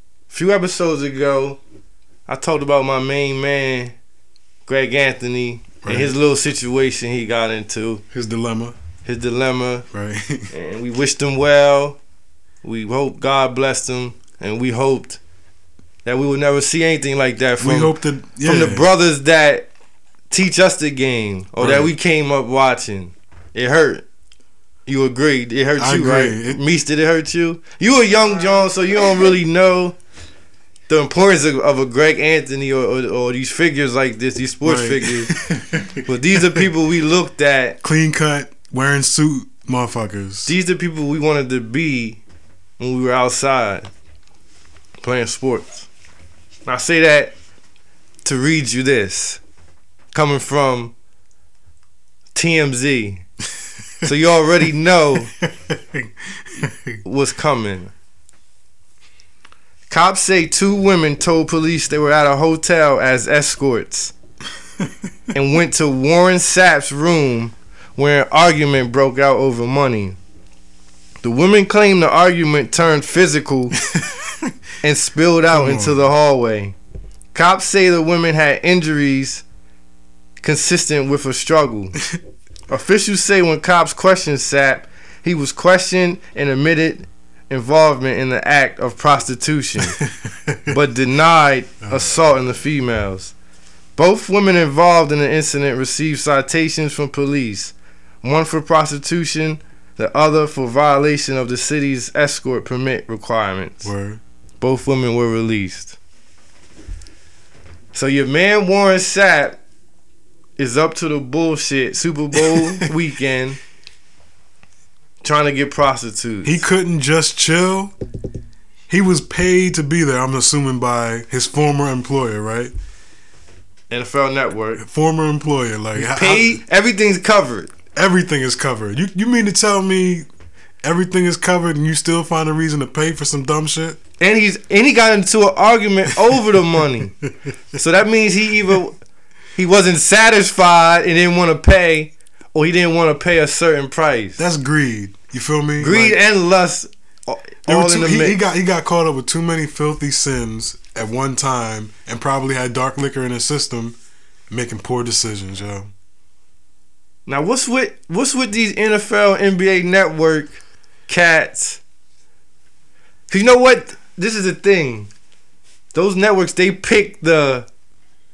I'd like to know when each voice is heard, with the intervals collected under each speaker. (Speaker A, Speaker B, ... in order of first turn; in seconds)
Speaker A: 0.3-1.6, 2.3-3.9, 4.7-8.0, 9.0-9.9, 10.5-12.0, 12.6-15.2, 16.0-19.7, 20.3-24.0, 24.9-29.9, 30.9-35.3, 36.1-37.8, 40.5-42.2, 42.8-43.9, 45.0-45.9, 46.6-47.3, 48.2-49.4, 50.1-50.9, 52.3-53.2, 54.0-55.3, 57.0-57.9, 59.9-64.1, 65.3-70.2, 71.2-73.8, 74.8-76.7, 77.3-79.4, 80.4-82.0, 82.7-90.0, 90.7-93.3, 94.0-103.9, 104.6-106.0, 107.9-109.6, 110.6-113.6, 115.2-116.6, 123.9-124.8, 126.0-127.7, 134.2-137.2, 137.7-139.0, 139.5-144.4, 145.8-148.4, 157.2-161.8, 163.3-165.1, 165.9-167.7
Speaker B: 5.8-6.1, 8.1-8.8, 9.9-10.5, 17.6-18.9, 21.6-21.9, 25.8-26.6, 34.6-36.7, 37.8-40.5, 55.4-57.0, 73.8-74.5, 75.5-76.1, 90.0-90.7, 91.9-92.2, 103.8-104.2, 112.4-112.9, 116.4-117.9, 118.9-122.7, 124.8-126.6, 127.9-130.3, 130.8-134.0, 144.4-146.2, 147.7-153.9, 154.5-155.9